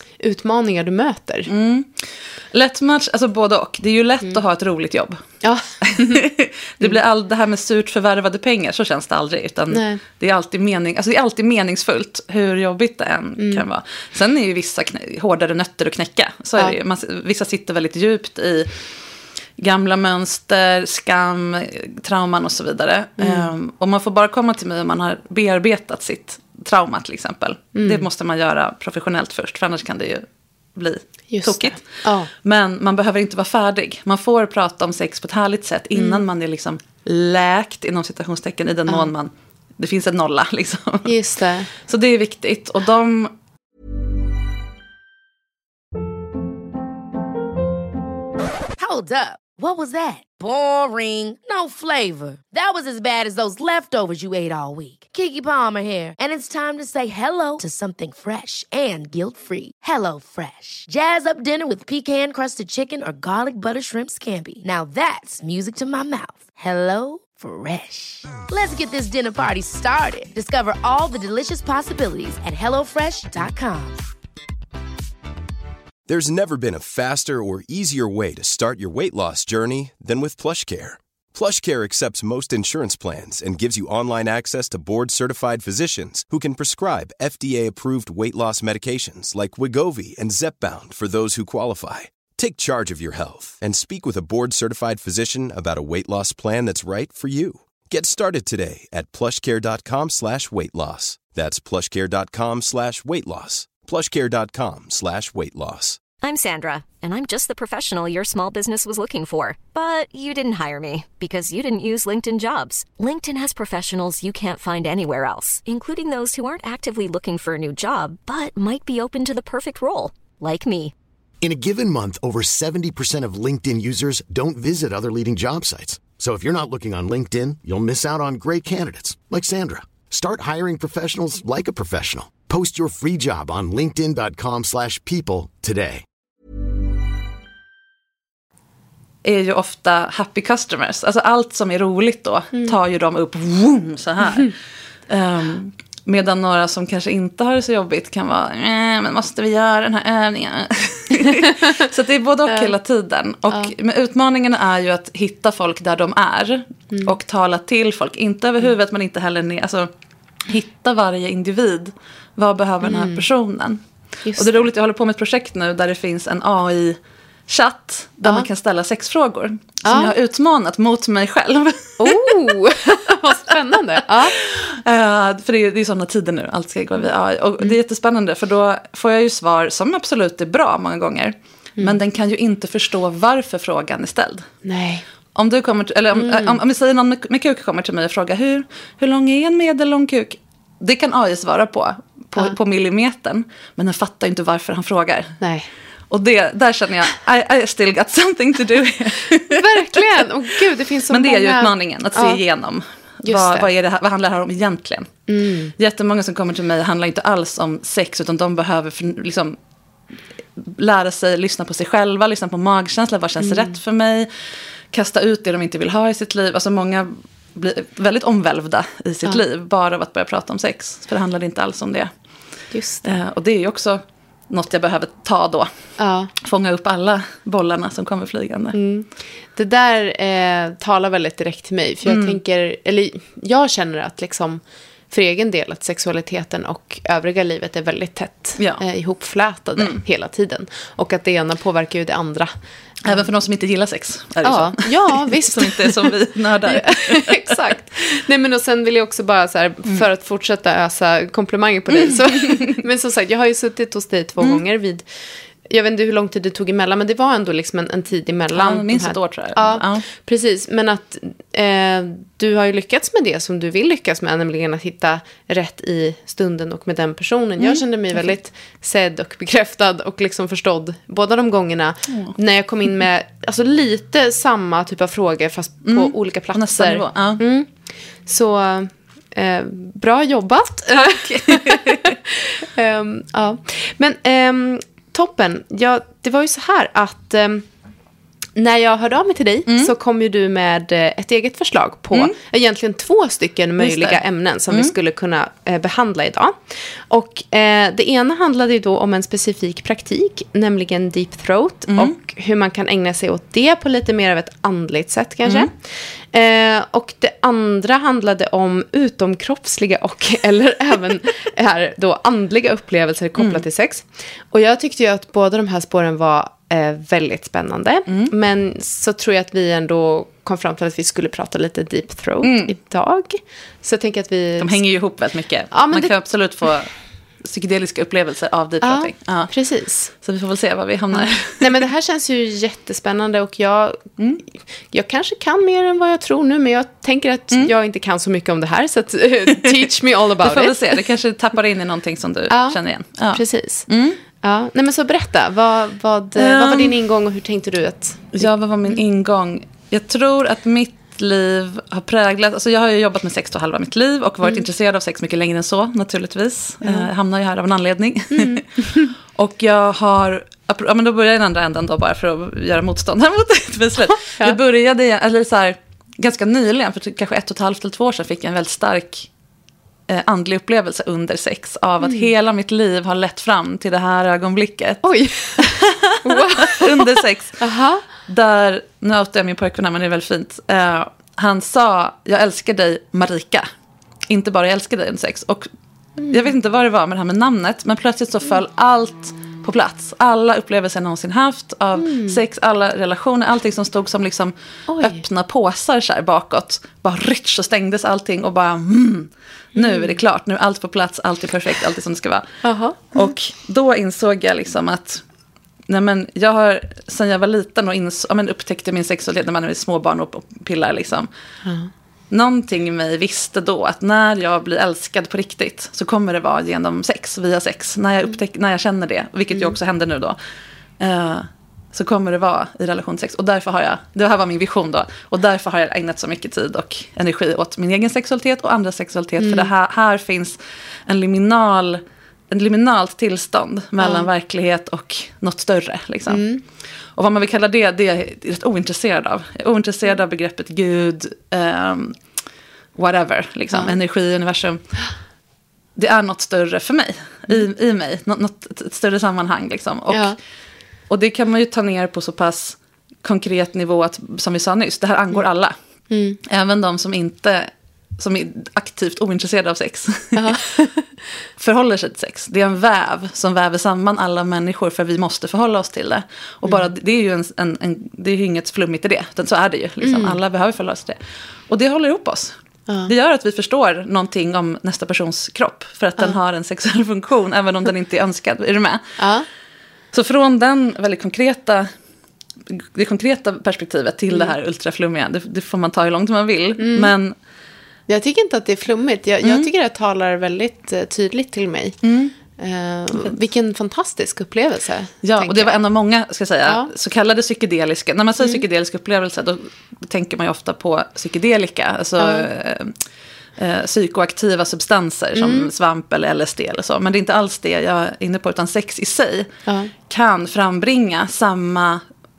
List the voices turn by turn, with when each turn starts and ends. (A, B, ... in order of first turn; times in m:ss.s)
0:00.2-0:01.5 A
0:01.5-0:05.2 B
0:05.4-0:06.2 A
0:05.8-0:18.7 B
0:09.7-0:10.0 A
0:13.4-0:13.6 A
0:19.6-0:41.1 B
0:23.2-0:23.5 A
0:27.7-0:28.0 A
0:31.3-0:32.3 A
0:35.9-0:36.2 A
0:41.0-0:41.7 A
0:41.8-0:43.3 B
0:48.8-1:14.0 C
1:16.1-1:46.0 D
1:46.2-2:00.9 E
2:01.4-2:16.0 F
2:19.2-2:24.5 B
2:25.1-2:39.9 B
2:40.5-2:43.8 B
2:42.8-2:43.2 A
2:44.2-2:44.6 A
2:44.4-2:52.4 B
2:49.8-2:50.1 A
2:52.0-2:54.4 A
2:54.4-3:04.5 B
3:04.6-3:05.0 A
3:05.3-3:15.4 B
3:06.1-3:06.6 A
3:15.4-3:15.7 A
3:16.1-3:20.0 B
3:19.5-3:22.4 A
3:21.1-3:25.2 B
3:23.2-3:23.7 A
3:25.3-3:25.7 A
3:25.8-3:29.6 B
3:30.6-3:34.3 B
3:33.4-3:33.7 A
3:34.9-3:42.1 B
3:42.7-3:43.1 A
3:43.0-3:45.7 B
3:46.0-3:46.3 A
3:46.4-3:48.8 B
3:48.7-4:02.5 A
3:52.0-3:52.4 B
4:03.0-4:07.5 B
4:04.4-4:06.1 A
4:06.6-4:15.1 A
4:11.9-4:12.8 B
4:15.6-4:37.7 A
4:18.5-4:20.0 B
4:27.6-4:28.3 B
4:32.1-4:32.3 B
4:35.8-4:37.4 B
4:38.2-4:47.6 A
4:41.2-4:42.1 B
4:48.5-5:24.8 A
4:53.8-4:54.2 B
5:18.1-5:18.3 B
5:22.4-5:22.7 B
5:24.6-5:26.9 B
5:25.7-5:26.1 A
5:27.4-5:29.5 B
5:28.8-5:30.1 A
5:30.1-5:31.6 B
5:31.1-5:34.1 A
5:34.9-5:40.9 A
5:40.4-5:44.2 B
5:42.5-5:42.8 A
5:43.3-5:43.9 A
5:44.4-5:49.0 A
5:46.4-5:46.9 B
5:48.3-6:09.3 B
5:56.8-5:57.1 A
5:58.3-5:59.1 A
6:04.1-6:04.6 A
6:10.1-6:17.6 B
6:12.0-6:12.3 A
6:15.0-6:18.0 A
6:18.2-6:23.7 B
6:24.3-6:25.7 B
6:26.3-6:42.6 B
6:32.0-6:32.4 A
6:34.9-6:35.2 A
6:39.8-6:40.2 A
6:42.6-6:43.3 A
6:43.1-6:45.2 B
6:45.9-6:51.3 B
6:52.3-7:00.4 B
7:01.0-7:10.6 B
7:09.4-7:09.7 A
7:11.1-7:16.4 B
7:14.0-7:14.3 A
7:16.3-7:16.6 A
7:17.2-7:22.2 B
7:23.0-7:24.8 B
7:26.0-7:30.4 B
7:30.1-7:30.4 A
7:31.1-7:35.7 B
7:36.1-7:36.4 A
7:36.4-7:40.6 B
7:40.4-7:41.1 A
7:41.6-7:51.2 B
7:46.6-7:46.9 A
7:50.0-7:50.4 A
7:51.7-7:52.6 B
7:53.1-7:59.0 B
7:59.2-7:59.4 A
8:00.1-8:01.9 B
8:02.7-8:07.3 B
8:06.8-8:07.1 A
8:08.1-8:12.0 A
8:09.4-8:09.7 B
8:12.0-8:12.3 B
8:12.6-8:15.8 A
8:15.2-8:22.9 B
8:22.2-8:22.5 A
8:23.6-8:29.5 B
8:25.3-8:25.7 A
8:29.6-8:29.9 A
8:30.1-8:32.0 B